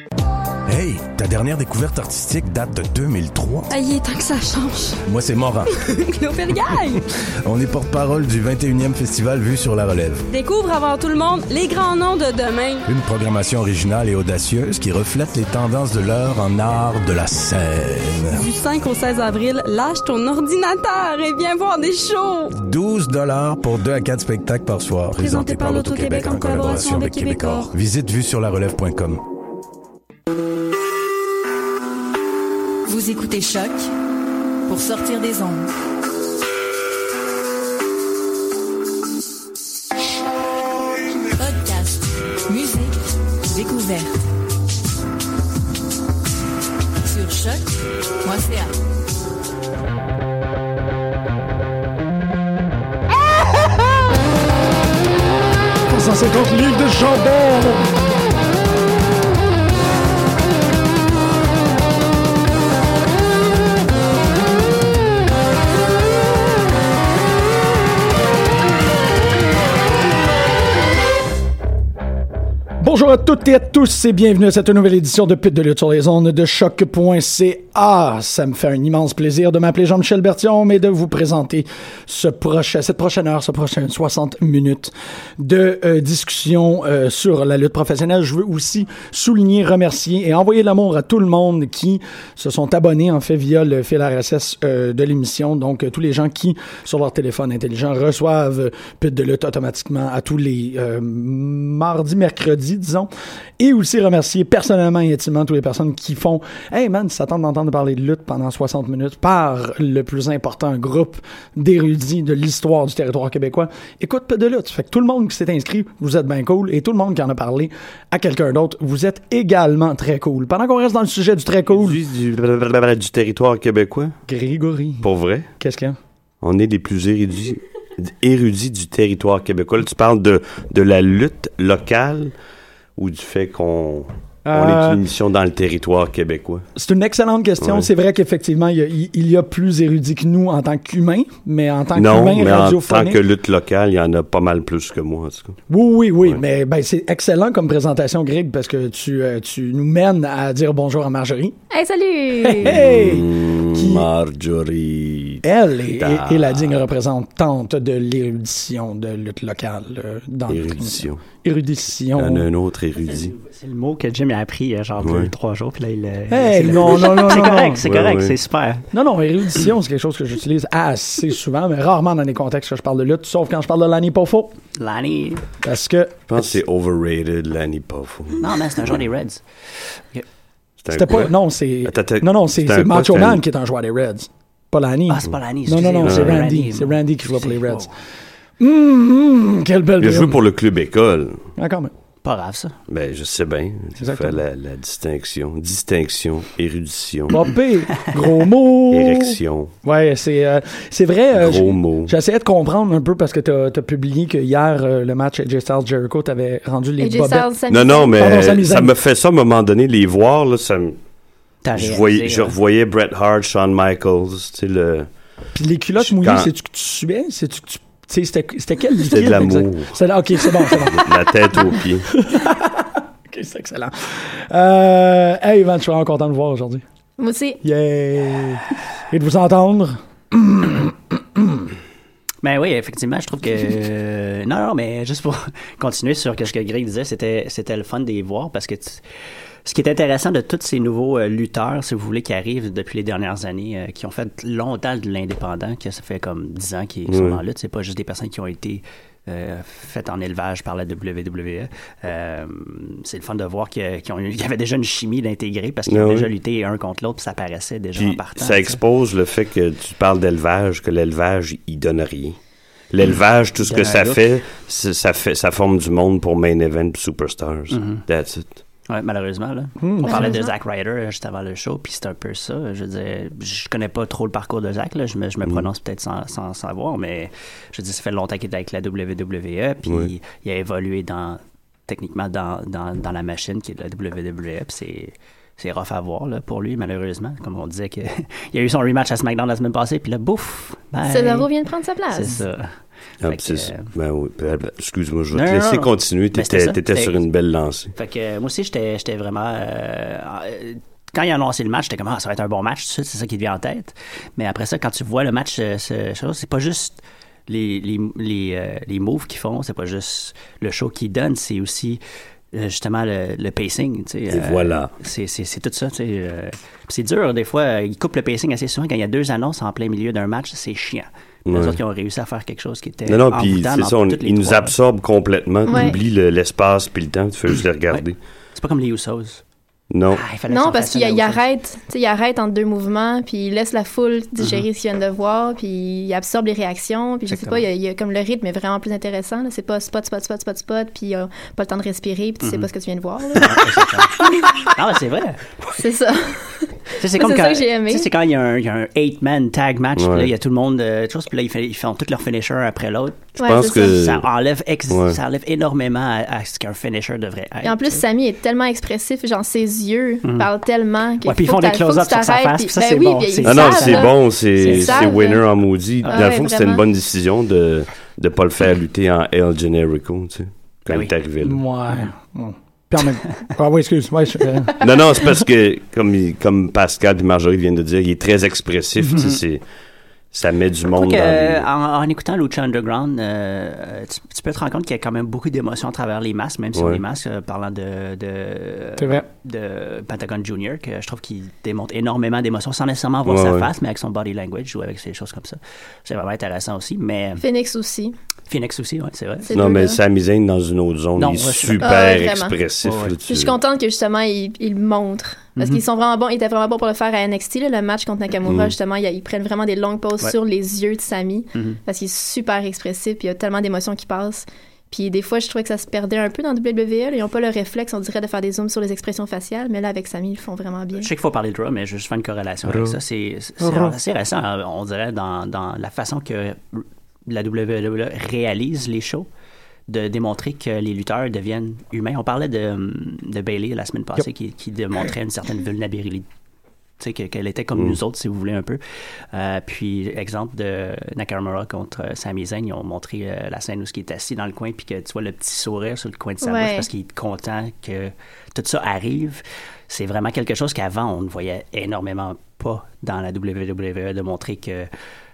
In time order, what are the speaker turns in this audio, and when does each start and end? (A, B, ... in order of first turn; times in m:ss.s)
0:00.7-0:03.7 A
0:03.7-0:05.0 B
0:05.0-0:05.7 A
0:05.8-0:07.1 B
0:07.4-0:10.3 A
0:10.3-0:12.9 B
0:12.9-0:18.4 A
0:18.3-0:22.5 B
0:22.6-0:29.2 A
0:25.2-0:27.7 B
0:32.9-0:33.9 C
0:34.7-0:35.7 C
0:41.4-0:44.2 C
0:47.0-0:48.7 C
0:55.9-0:57.9 D
1:12.8-2:02.0 D
2:01.7-2:04.2 E
2:04.3-2:05.1 D
2:05.0-2:05.5 E
2:05.6-2:06.0 D
2:06.4-2:12.3 E
2:13.0-2:16.6 E
2:14.4-2:15.0 D
2:16.8-2:23.2 D
2:17.6-2:17.9 E
2:22.0-2:25.6 E
2:25.7-2:31.6 D
2:31.7-2:32.7 F
2:32.4-2:34.1 D
2:32.6-2:35.4 E
2:35.4-2:42.5 D
2:36.0-2:36.7 E
2:40.5-2:41.2 E
2:42.2-2:43.4 E
2:43.1-2:48.8 G
2:45.0-2:45.3 E
2:46.3-2:47.8 D
2:47.6-2:48.4 E
2:48.9-2:54.5 D
2:54.8-2:55.4 G
2:55.6-2:56.6 D
2:56.3-2:59.0 E
2:58.4-2:59.4 G
3:00.8-3:03.4 E
3:00.9-3:07.9 D
3:05.1-3:07.9 G
3:06.0-3:06.4 E
3:08.6-3:10.4 D
3:10.0-3:11.4 E
3:11.6-3:11.9 D
3:12.2-3:12.8 G
3:12.9-3:17.4 E
3:14.0-3:14.4 D
3:17.3-3:27.5 D
3:18.9-3:19.7 E
3:21.4-3:22.1 E
3:27.0-3:28.4 F
3:27.7-3:31.0 E
3:28.2-3:29.0 D
3:31.6-3:32.6 G
3:31.8-3:35.1 E
3:35.6-3:46.8 D
3:36.0-3:36.5 E
3:39.0-3:40.0 E
3:40.5-3:42.1 E
3:47.2-3:47.6 F
3:47.6-3:51.7 D
3:52.4-3:59.0 G
3:59.6-4:18.8 G
4:07.1-4:07.4 E
4:15.9-4:16.3 E
4:18.0-4:22.4 E
4:22.9-4:28.6 E
4:23.6-4:24.2 G
4:27.7-4:28.0 G
4:28.9-4:51.5 G
4:29.8-4:30.3 D
4:30.1-4:30.5 F
4:51.1-4:52.4 F
4:52.1-4:53.9 G
4:53.2-4:57.9 E
4:55.3-4:57.2 G
4:58.0-5:12.0 G
5:12.5-5:24.8 G
5:14.3-5:14.9 E
5:21.5-5:21.8 E
5:23.1-5:28.2 E
5:25.7-5:26.0 F
5:27.9-5:29.4 G
5:29.9-5:30.2 E
5:30.1-5:31.4 G
5:30.5-5:44.7 F
5:34.4-5:34.6 G
5:37.3-5:37.6 G
5:42.4-5:42.7 G
5:43.4-5:45.4 G
5:45.7-5:48.1 F
5:47.0-5:58.0 G
5:50.0-5:50.3 E
5:53.4-5:53.9 F
5:53.4-5:54.3 E
5:54.9-5:55.2 E
5:57.6-6:05.4 F
6:00.2-6:00.5 G
6:01.2-6:05.1 G
6:03.4-6:11.6 E
6:06.0-6:06.3 G
6:06.1-6:06.8 F
6:11.4-6:15.3 D
6:14.8-6:19.6 E
6:20.3-6:21.7 E
6:20.9-6:37.4 G
6:26.8-6:27.0 E
6:29.0-6:29.2 D
6:33.3-6:33.7 E
6:37.4-6:38.2 F
6:38.5-6:39.5 G
6:39.4-6:40.0 F
6:39.5-6:43.6 E
6:41.2-6:41.9 G
6:41.8-6:42.6 F
6:42.8-6:43.2 G
6:43.3-7:01.1 F
6:45.6-6:45.8 G
6:48.5-6:48.7 E
6:51.6-6:51.8 G
7:01.0-7:09.3 G
7:02.7-7:03.0 D
7:03.6-7:04.0 D
7:09.9-7:16.3 G
7:17.0-7:18.8 G
7:19.3-7:34.9 G
7:26.4-7:26.9 F